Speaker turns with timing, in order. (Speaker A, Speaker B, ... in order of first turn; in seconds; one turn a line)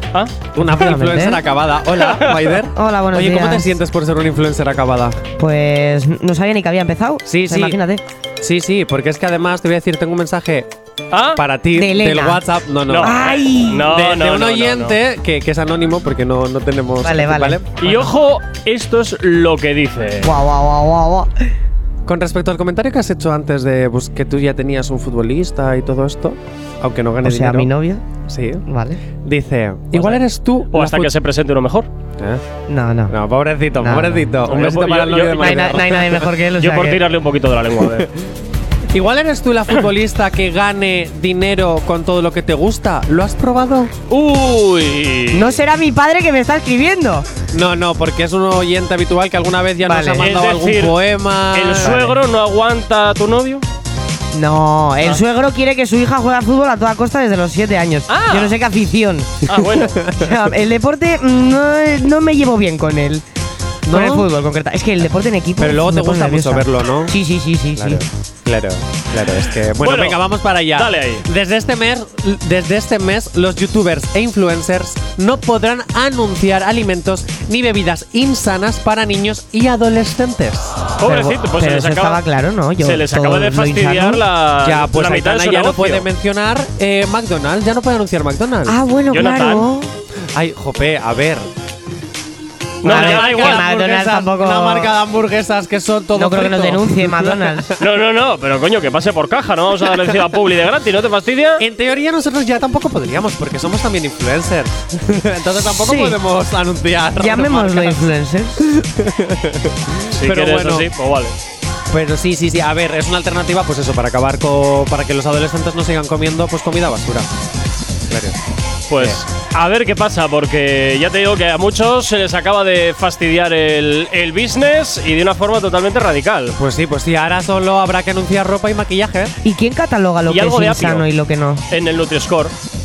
Speaker A: 0.6-5.2
Speaker B: 0.6-1.4
Speaker C: 2.0-2.6
Speaker B: 2.7-3.7
Speaker B: 5.4-8.0
Speaker A: 7.2-7.8
Speaker A: 8.4-10.7
Speaker C: 11.1-11.4
Speaker A: 11.3-17.7
Speaker B: 11.8-12.4
Speaker C: 12.9-15.0
Speaker B: 13.0-13.9
Speaker B: 17.0-18.1
Speaker C: 17.8-20.3
Speaker B: 20.2-21.3
Speaker A: 22.1-27.7
Speaker B: 27.2-28.0
Speaker A: 28.3-28.6
Speaker B: 28.7-29.0
Speaker A: 29.2-31.1
Speaker C: 29.9-31.9
Speaker B: 32.7-33.1
Speaker A: 33.1-36.3
Speaker B: 33.8-34.4
Speaker C: 34.5-35.8
Speaker B: 35.4-37.0
Speaker C: 36.6-38.1
Speaker A: 38.9-44.0
Speaker C: 44.1-45.6
Speaker B: 45.3-47.3
Speaker A: 47.5-52.0
Speaker B: 49.8-50.2
Speaker C: 50.2-51.0
Speaker C: 51.5-53.6
Speaker B: 51.8-52.2
Speaker B: 54.3-59.4
Speaker C: 58.1-58.6
Speaker C: 59.5-60.0
Speaker A: 59.5-60.5
Speaker B: 60.1-63.2
Speaker A: 63.9-64.3
Speaker B: 63.9-68.0
Speaker A: 65.6-67.1
Speaker A: 67.8-80.9
Speaker C: 69.8-70.2
Speaker C: 70.7-71.3
Speaker C: 81.0-82.2
Speaker B: 81.0-84.2
Speaker C: 82.8-86.1
Speaker A: 84.6-88.8
Speaker B: 88.7-89.9
Speaker C: 89.1-89.7
Speaker A: 90.3-91.5
Speaker C: 92.8-93.7
Speaker A: 92.8-97.8
Speaker B: 92.8-94.9
Speaker B: 96.2-97.7
Speaker C: 97.8-101.7
Speaker A: 101.6-108.1
Speaker B: 105.8-106.2
Speaker B: 107.2-108.6
Speaker A: 108.6-110.9
Speaker C: 110.1-111.4
Speaker A: 111.9-117.3
Speaker A: 118.1-118.4
Speaker C: 118.9-126.6
Speaker A: 126.5-129.3
Speaker B: 129.4-131.6
Speaker C: 130.3-131.1
Speaker C: 131.7-132.5